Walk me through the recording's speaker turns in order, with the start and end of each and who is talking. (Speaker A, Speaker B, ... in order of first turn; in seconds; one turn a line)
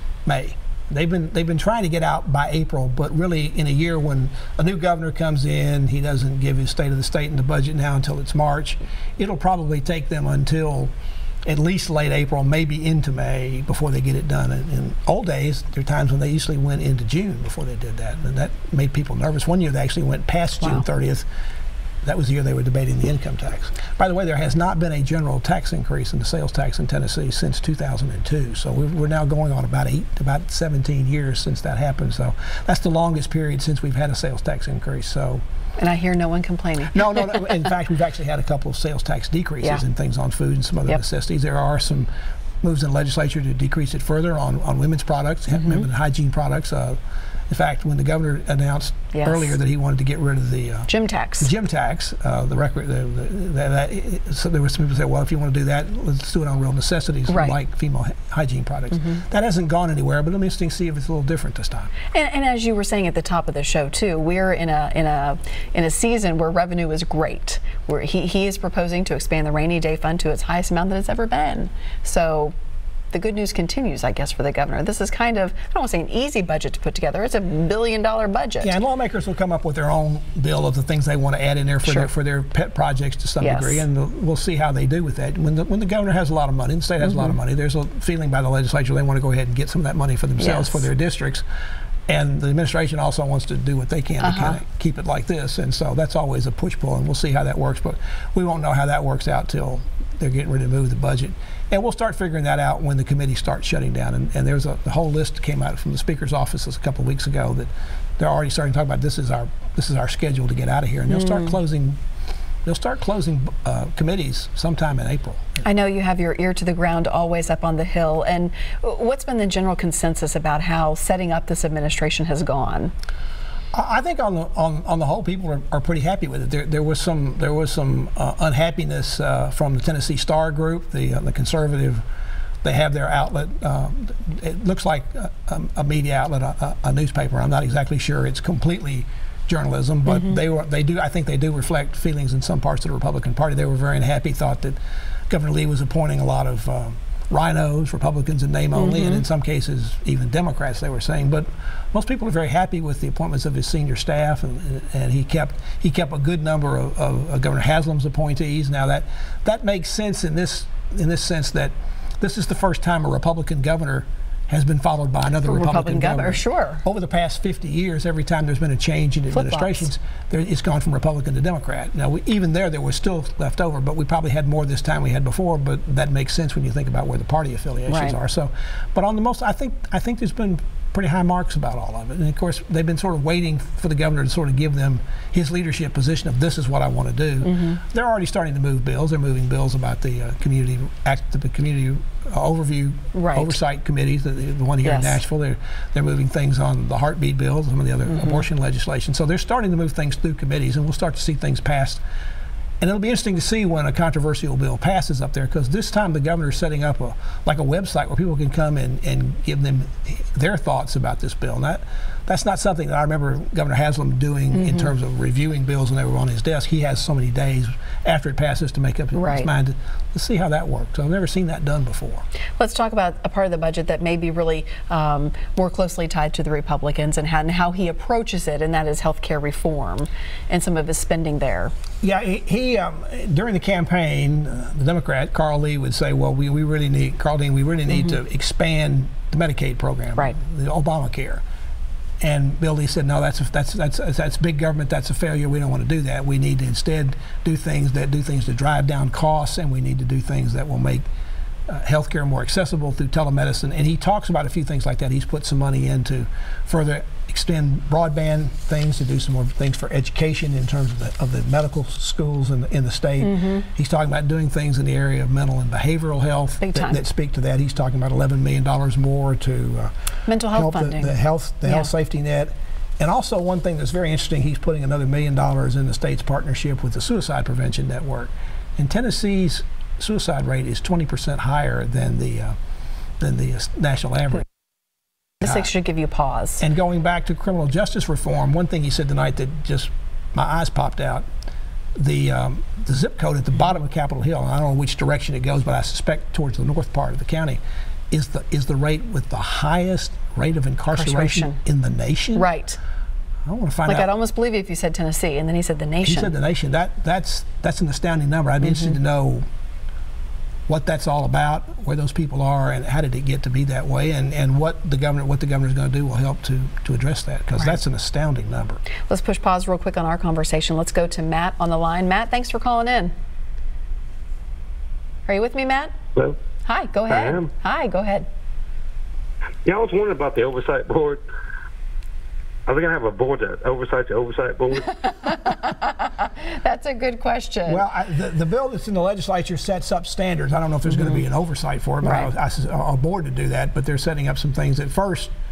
Speaker A: 0.2-10.9
Speaker A: 11.4-21.2
Speaker A: 22.0-35.4
Speaker B: 35.8-37.6
Speaker A: 36.9-42.1
Speaker A: 42.6-47.0
Speaker B: 45.5-45.9
Speaker A: 47.5-50.9
Speaker B: 49.1-49.5
Speaker B: 50.9-51.5
Speaker A: 51.4-61.9
Speaker B: 57.3-57.6
Speaker B: 62.1-72.5
Speaker B: 73.1-78.7
Speaker A: 78.6-91.4
Speaker B: 83.4-83.8
Speaker B: 87.0-87.3
Speaker B: 90.4-90.9
Speaker A: 92.1-112.0
Speaker B: 94.2-94.6
Speaker A: 112.6-115.6
Speaker B: 115.6-122.9
Speaker A: 123.7-132.0
Speaker A: 132.6-144.8
Speaker B: 140.1-140.4
Speaker A: 145.3-202.0
Speaker B: 148.7-149.2
Speaker B: 165.4-166.8
Speaker B: 169.3-169.9
Speaker B: 177.9-178.2
Speaker B: 187.4-187.8
Speaker B: 193.1-193.6
Speaker B: 194.8-195.2
Speaker B: 198.1-198.4
Speaker A: 202.8-222.2
Speaker B: 214.5-214.9
Speaker B: 219.1-219.5
Speaker B: 222.6-231.7
Speaker A: 232.0-241.4
Speaker A: 242.2-251.0
Speaker A: 251.7-269.9
Speaker B: 263.2-263.6
Speaker B: 266.6-267.0
Speaker B: 270.3-271.9
Speaker A: 270.5-282.6
Speaker A: 283.2-284.4
Speaker B: 285.4-286.6
Speaker A: 285.4-285.7
Speaker A: 286.6-291.2
Speaker A: 292.0-297.6
Speaker A: 298.1-302.5
Speaker B: 300.9-301.6
Speaker B: 302.4-302.8
Speaker A: 303.4-304.1
Speaker B: 303.9-306.3
Speaker A: 306.0-309.4
Speaker B: 308.6-308.9
Speaker A: 310.7-318.8
Speaker B: 319.1-323.1
Speaker B: 325.3-325.9
Speaker B: 326.6-328.2
Speaker C: 327.1-327.5
Speaker C: 329.6-331.2
Speaker C: 332.7-335.1
Speaker B: 335.0-337.8
Speaker A: 337.6-345.3
Speaker B: 340.9-341.2
Speaker B: 342.0-342.3